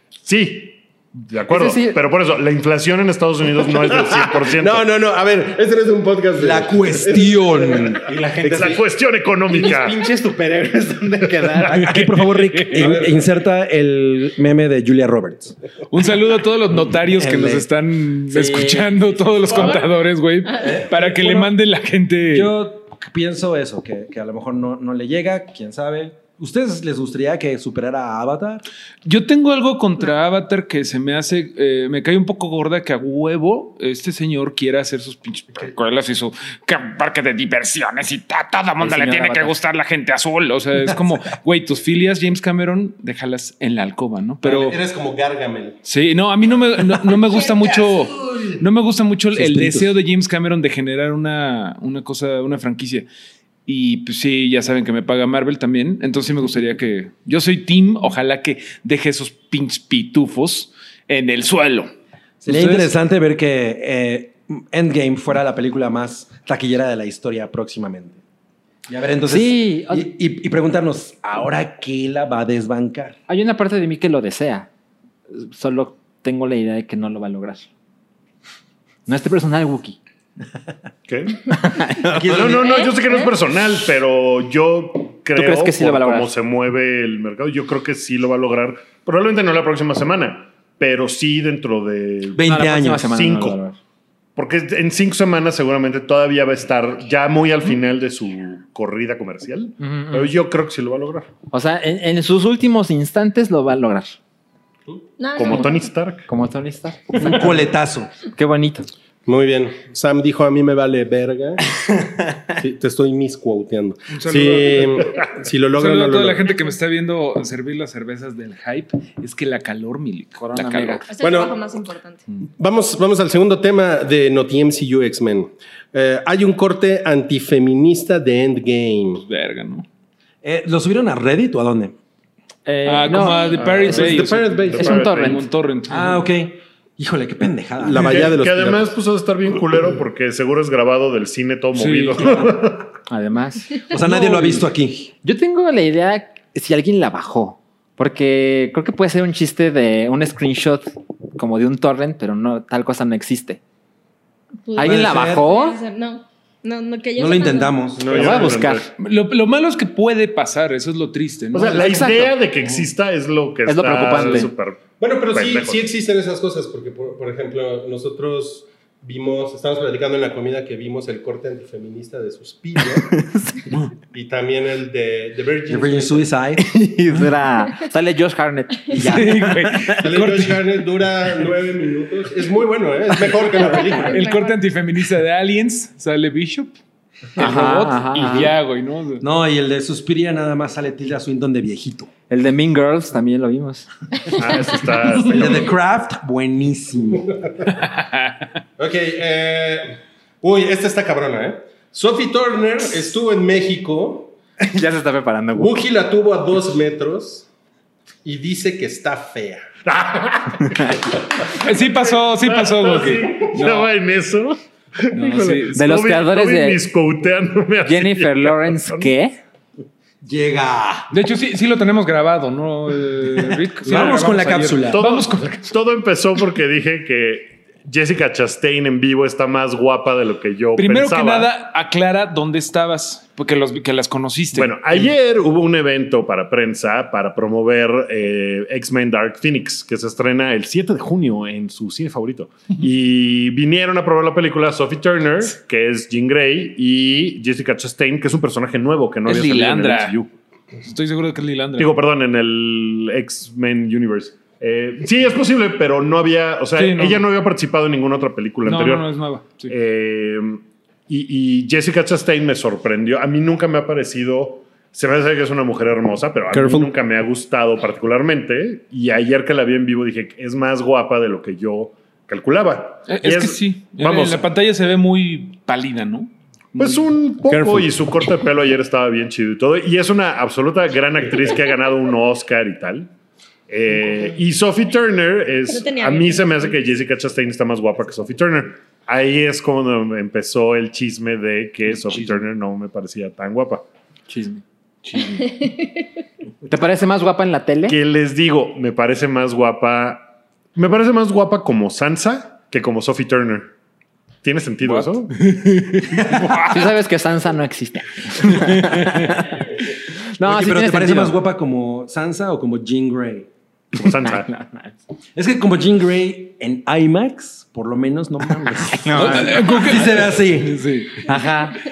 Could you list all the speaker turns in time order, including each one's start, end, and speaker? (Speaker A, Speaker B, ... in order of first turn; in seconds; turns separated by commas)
Speaker A: 0.2-4.8, Speaker B: 1.5-2.0, Speaker C: 3.9-8.8, Speaker D: 6.3-8.0, Speaker B: 8.1-8.8, Speaker A: 8.4-10.0, Speaker B: 9.5-11.8, Speaker A: 11.2-11.7, Speaker D: 11.6-15.5, Speaker E: 11.8-13.0, Speaker C: 12.8-13.2, Speaker E: 15.9-22.5, Speaker D: 17.2-17.6, Speaker B: 18.3-18.9, Speaker D: 20.6-21.5, Speaker D: 22.3-28.6, Speaker E: 29.0-44.8, Speaker B: 38.8-39.6, Speaker C: 44.4-45.8, Speaker E: 45.8-53.1, Speaker D: 49.3-49.9, Speaker E: 53.6-61.9, Speaker D: 62.4-68.2, Speaker E: 62.4-62.9, Speaker D: 68.9-73.2, Speaker B: 69.3-70.1, Speaker B: 73.3-74.7, Speaker B: 75.3-77.7, Speaker B: 79.1-80.0, Speaker A: 81.1-81.5, Speaker B: 81.5-82.3, Speaker D: 82.0-82.8, Speaker A: 82.2-93.6, Speaker B: 85.3-86.3, Speaker D: 92.3-93.0, Speaker B: 92.5-93.8, Speaker A: 94.3-101.3, Speaker B: 99.8-100.3, Speaker B: 101.5-104.1, Speaker F: 105.2-105.8, Speaker A: 105.3-106.2, Speaker B: 106.3-107.5, Speaker D: 107.2-108.1, Speaker B: 108.3-108.9, Speaker C: 109.2-111.7, Speaker C: 112.5-116.5, Speaker E: 114.1-121.0, Speaker B: 120.4-121.0, Speaker F: 121.1-122.2, Speaker C: 121.2-121.6, Speaker C: 122.5-129.2, Speaker E: 129.2-129.8, Speaker D: 130.4-131.9, Speaker B: 132.7-134.2, Speaker E: 132.8-136.2, Speaker A: 133.6-134.1, Speaker C: 133.8-135.1, Speaker A: 134.7-135.4, Speaker B: 134.8-135.4, Speaker D: 135.9-138.3, Speaker C: 137.8-138.9, Speaker A: 137.9-142.9, Speaker E: 141.7-142.4, Speaker B: 143.1-144.6, Speaker D: 143.9-145.1, Speaker B: 145.2-153.6, Speaker F: 154.6-157.9, Speaker B: 154.8-155.8, Speaker D: 154.8-155.5, Speaker D: 157.2-158.5, Speaker A: 157.9-158.9, Speaker B: 158.1-158.9, Speaker C: 158.1-158.5, Speaker E: 159.0-162.2, Speaker A: 161.5-165.9, Speaker B: 161.8-162.3, Speaker B: 163.7-164.5, Speaker C: 165.0-173.1, Speaker B: 173.1-173.6, Speaker C: 174.1-176.3, Speaker D: 175.7-176.7, Speaker B: 176.6-179.9, Speaker D: 178.9-179.6, Speaker E: 179.0-180.5, Speaker C: 180.0-184.2, Speaker F: 183.8-184.6, Speaker E: 184.0-186.7, Speaker E: 187.3-189.2, Speaker B: 187.4-188.5, Speaker D: 189.2-192.1, Speaker B: 192.3-193.9, Speaker A: 194.3-195.7, Speaker D: 195.1-197.3, Speaker E: 197.8-198.4, Speaker C: 198.8-204.3, Speaker B: 204.6-205.8, Speaker C: 205.6-207.5, Speaker C: 208.2-209.6, Speaker A: 209.8-219.1, Speaker E: 211.6-213.9, Speaker E: 215.1-215.8, Speaker B: 215.7-216.8, Speaker B: 217.8-219.4, Speaker D: 220.2-221.1, Speaker E: 221.1-225.7, Speaker D: 223.8-225.0, Speaker A: 224.9-231.5, Speaker E: 230.8-235.1, Speaker A: 234.5-250.3, Speaker E: 249.2-250.2, Speaker E: 250.8-252.0, Speaker A: 251.8-259.1, Speaker E: 256.8-257.3, Speaker E: 258.6-259.7, Speaker A: 259.7-274.4, Speaker D: 266.5-266.9, Speaker E: 273.1-277.0, Speaker A: 276.8-283.1, Speaker A: 283.7-293.9, Speaker F: 285.7-286.7, Speaker B: 294.3-294.6, Speaker E: 295.1-295.5, Speaker F: 295.4-295.9, Speaker B: 296.7-298.0, Speaker A: 297.9-303.7, Speaker A: 304.4-305.4, Speaker E: 304.8-306.8, Speaker B: 306.6-309.6, Speaker E: 308.6-309.3, Speaker B: 310.4-311.4, Speaker D: 310.4-313.5, Speaker A: 313.9-314.5, Speaker B: 314.2-315.0, Speaker D: 315.4-320.8, Speaker B: 318.8-319.8, Speaker E: 319.1-321.3, Speaker B: 321.2-321.8